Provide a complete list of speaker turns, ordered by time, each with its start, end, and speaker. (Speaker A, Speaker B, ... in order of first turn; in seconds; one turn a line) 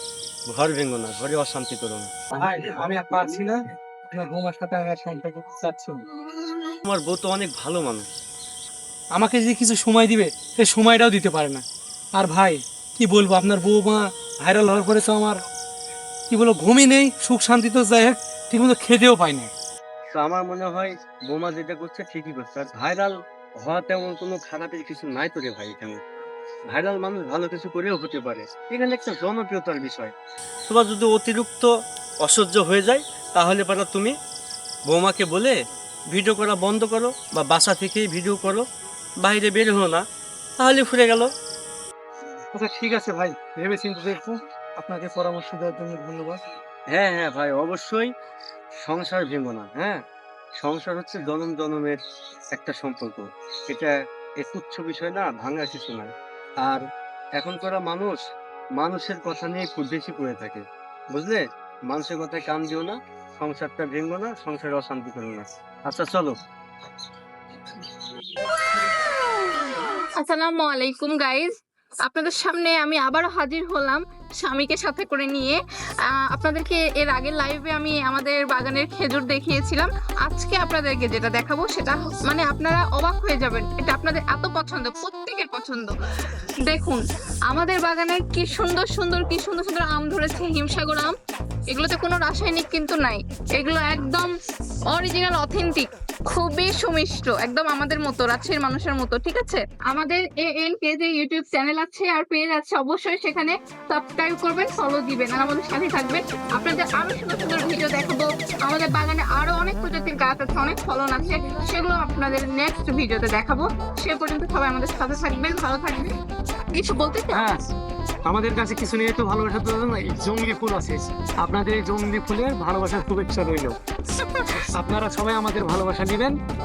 Speaker A: 0.5-2.1
Speaker B: 2.3-6.0
Speaker A: 6.8-8.0
Speaker B: 9.1-11.6
Speaker B: 12.1-15.4
Speaker B: 16.3-19.5
Speaker A: 20.1-26.0
Speaker A: 26.7-30.1
Speaker A: 30.7-31.7
Speaker A: 32.2-34.1
Speaker A: 34.9-35.5
Speaker A: 36.1-38.6
Speaker A: 39.2-40.0
Speaker A: 40.6-41.3
Speaker B: 42.5-46.4
Speaker A: 46.9-48.1
Speaker A: 48.8-50.0
Speaker A: 50.6-52.0
Speaker A: 52.5-56.1
Speaker A: 57.4-58.2
Speaker A: 58.8-66.3
Speaker C: 70.0-71.5
Speaker C: 72.0-86.0
Speaker C: 86.5-91.1
Speaker C: 91.7-94.3
Speaker C: 94.9-116.1
Speaker C: 116.7-117.5
Speaker B: 117.3-117.6
Speaker B: 118.2-123.8
Speaker C: 124.2-124.7
Speaker B: 124.7-126.4